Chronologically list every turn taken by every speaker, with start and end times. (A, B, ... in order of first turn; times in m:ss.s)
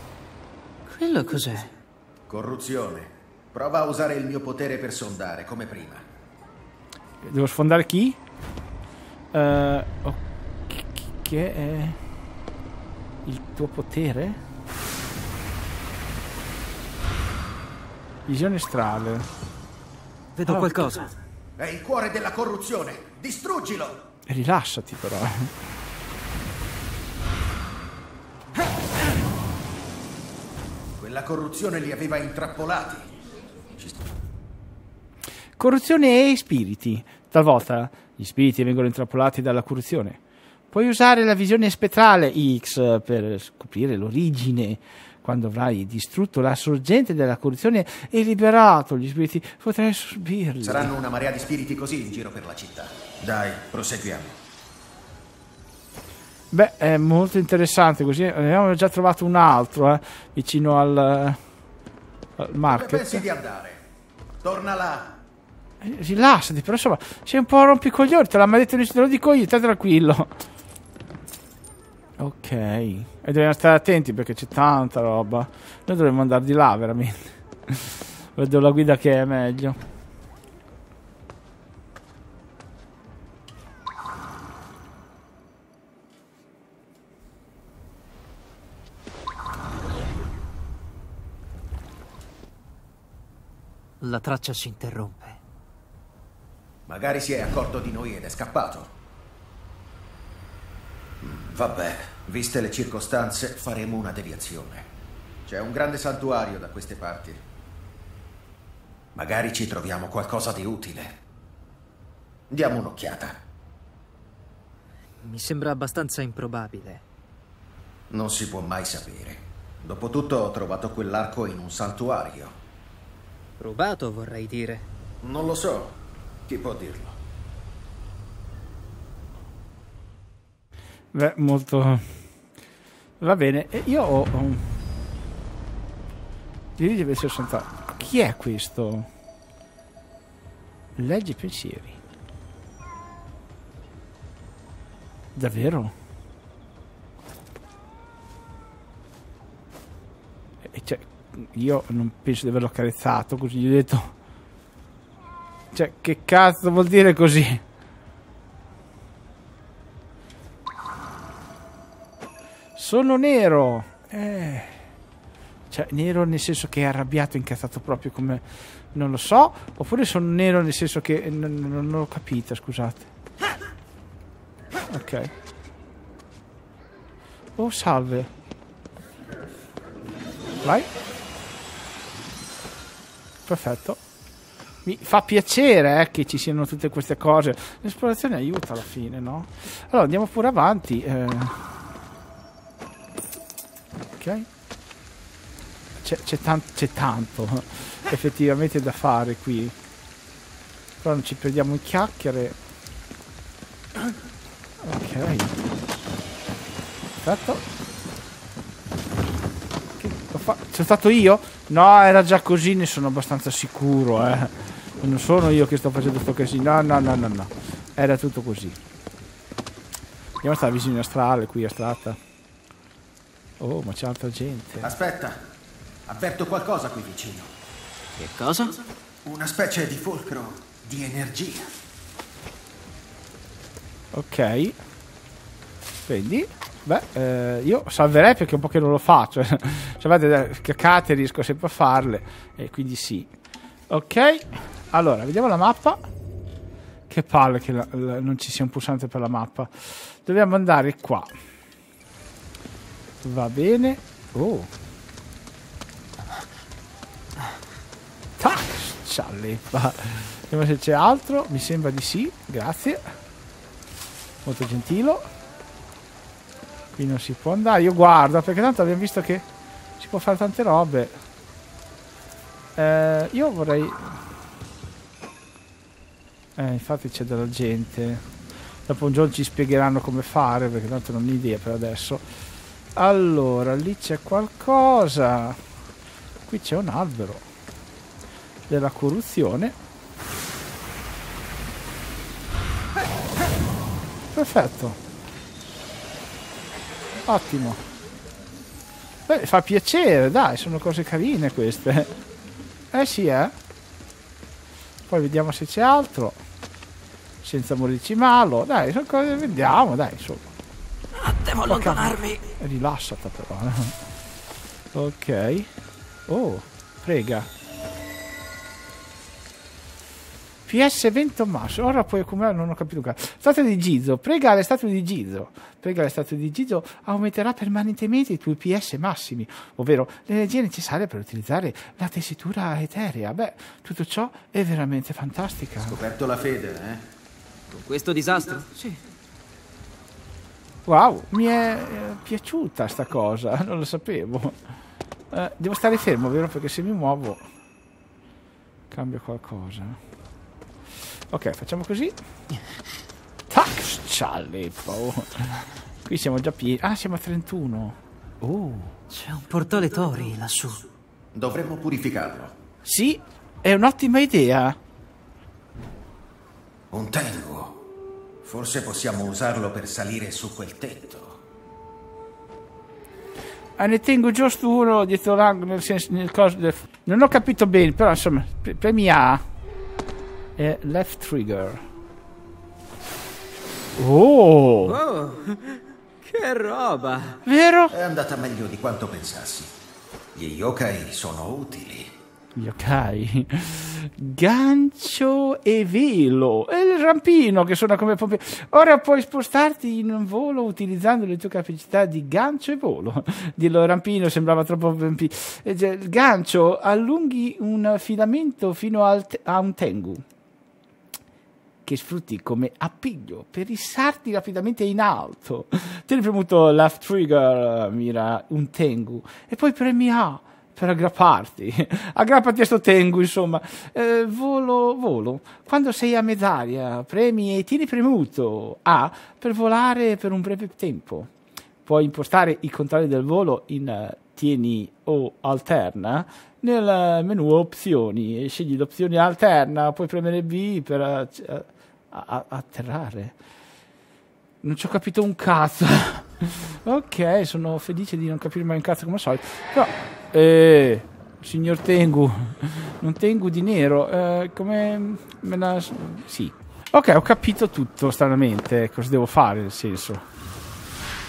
0:00.9-0:01.7 A
0:02.3-0:06.0 B
0:07.2-0:08.2 C
0:09.3-0:12.0 C
0:13.2-0:14.4 C
0:18.3-0:19.3 C
0:20.4-0:21.1 A
0:21.6-0:24.1 B
0:24.3-0:25.5 C
0:31.0-0:33.1 B
0:33.7-0:34.1 B
0:35.6-0:40.2 C
0:40.7-0:50.9 C
0:50.6-0:54.4 B
0:56.5-1:01.4 C
1:02.4-1:03.2 C
1:02.7-1:03.8 B
1:04.4-1:05.2 B
1:05.8-1:10.3 C
1:12.2-1:19.8 C
1:34.0-1:35.4 A
1:36.9-1:38.9 B
1:41.2-1:44.9 B
1:45.5-1:47.4 B
1:49.2-1:51.2 B
1:52.5-1:53.4 B
1:55.2-1:57.0 A
1:58.1-2:02.6 B
2:03.6-2:04.9 A
2:05.2-2:07.2 B
2:11.1-2:12.1 C
2:13.2-2:14.7 C
2:16.8-2:19.1 C
2:21.0-2:22.0 C
2:25.4-2:25.9 C
2:30.7-2:34.1 C
2:35.7-2:37.6 C
2:42.8-2:44.8 C
2:45.7-2:53.1 C
2:54.9-2:55.3 C
2:57.6-2:58.3 C
3:03.5-3:04.0 C
3:04.8-3:11.6 C
3:14.2-3:14.5 C
3:16.0-3:19.8 C
3:21.0-3:22.6 C
3:24.8-3:25.5 C
3:27.2-3:27.6 C
3:30.0-3:38.8 C
3:40.4-3:42.2 C
3:43.6-3:44.9 C
3:44.8-3:45.4 B
3:46.1-3:47.5 B
3:48.2-3:48.8 A
3:49.2-3:51.7 B
3:54.1-3:54.8 C
3:56.1-4:03.3 C
4:03.9-4:06.1 C
4:07.1-4:11.3 C
4:13.2-4:14.7 C
4:18.4-4:23.0 C
4:24.4-4:25.3 C
4:27.0-4:29.4 C
4:30.0-4:31.2 C
4:32.8-4:34.2 C
4:36.6-4:38.2 C
4:38.9-4:42.3 C
4:43.0-4:45.6 C
4:46.5-4:47.5 C
4:48.7-4:49.8 C
4:54.3-4:55.0 C
4:57.3-4:57.8 C
4:59.3-5:02.2 C
5:02.9-5:03.5 C
5:05.1-5:06.4 C
5:07.4-5:10.5 C
5:11.2-5:12.4 A
5:11.7-5:14.0 C
5:14.9-5:15.7 C
5:16.3-5:17.5 C
5:20.7-5:36.0 C
5:35.8-5:37.1 B
5:37.7-5:39.0 A
5:40.9-5:44.6 C
5:45.3-5:47.4 C
5:48.9-5:50.0 C
5:51.3-5:52.2 C
5:53.5-5:59.0 C
5:59.1-6:00.8 A
6:01.3-6:02.6 B
6:02.8-6:04.8 C
6:06.9-6:07.8 B
6:08.4-6:11.4 B
6:13.8-6:19.4 C
6:20.6-6:21.8 C
6:24.0-6:25.0 C
6:24.8-6:27.4 A
6:27.4-6:27.9 C
6:27.9-6:29.7 B
6:30.4-6:32.2 B
6:32.6-6:50.2 C
6:51.8-7:11.3 C
7:11.8-7:23.4 C
7:24.6-7:40.2 C